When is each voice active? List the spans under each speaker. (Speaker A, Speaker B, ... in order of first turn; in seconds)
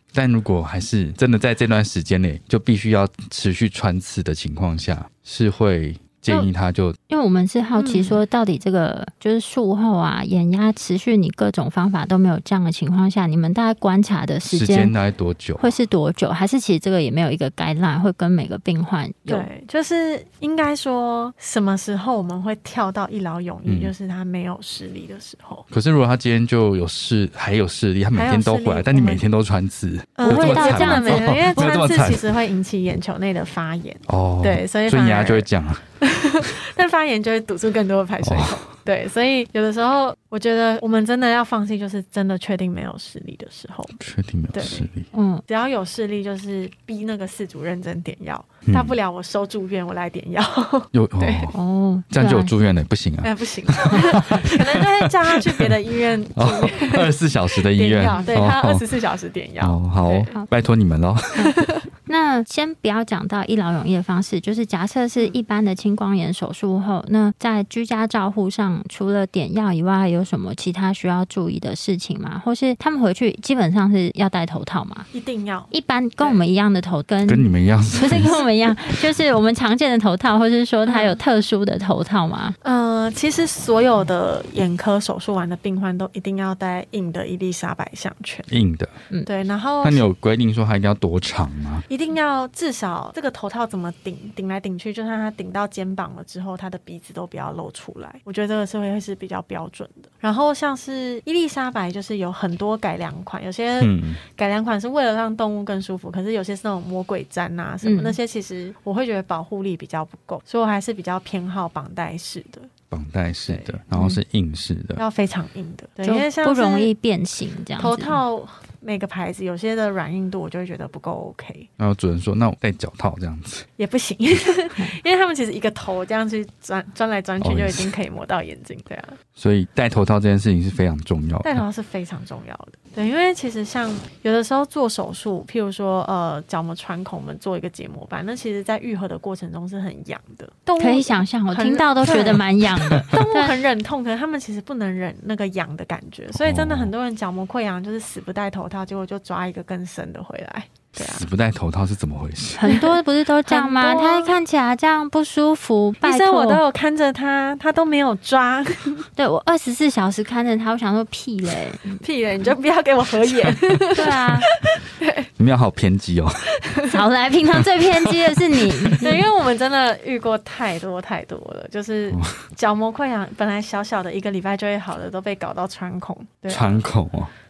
Speaker A: 0.1-7.0, 14.5-15.7, 23.6-23.9, 25.7-32.3, 34.1-35.8, 38.2-38.6, 44.0-45.0, 48.7-49.0, 50.9-51.5, 52.1-55.7, 56.4-58.8, 59.6-61.7, 77.2-78.4, 88.5-89.0, 89.8-91.8, 103.8-104.2, 112.9-115.0, 121.8-123.7, 127.4-127.9, 129.4-131.6, 146.3-146.9, 151.0-152.6, 163.4-163.8, 165.4-166.5, 167.5-169.0, 176.5-177.3
Speaker B: 7.1-14.9, 15.6-19.5, 30.2-31.6, 45.1-45.4, 51.5-52.5, 58.1-58.3, 62.1-75.1, 75.7-82.5, 107.8-108.2, 116.0-118.2, 140.8-143.6, 152.6-156.6, 159.2-162.0, 163.9-164.5, 166.9-169.2
Speaker C: 7.8-8.2, 19.3-25.6, 28.1-29.2, 30.2-35.5, 36.0-44.0, 44.5-44.9, 45.5-51.5, 53.2-60.3, 61.4-61.9, 75.1-76.4, 77.9-78.4, 80.8-81.2, 82.6-88.5, 89.2-90.0, 91.9-112.7, 113.5-113.8, 115.0-116.9, 117.8-121.7, 123.8-129.2, 131.4-142.4, 143.0-151.3, 152.6-154.3, 156.0-159.1, 162.0-165.3, 166.5-167.0, 169.0-176.8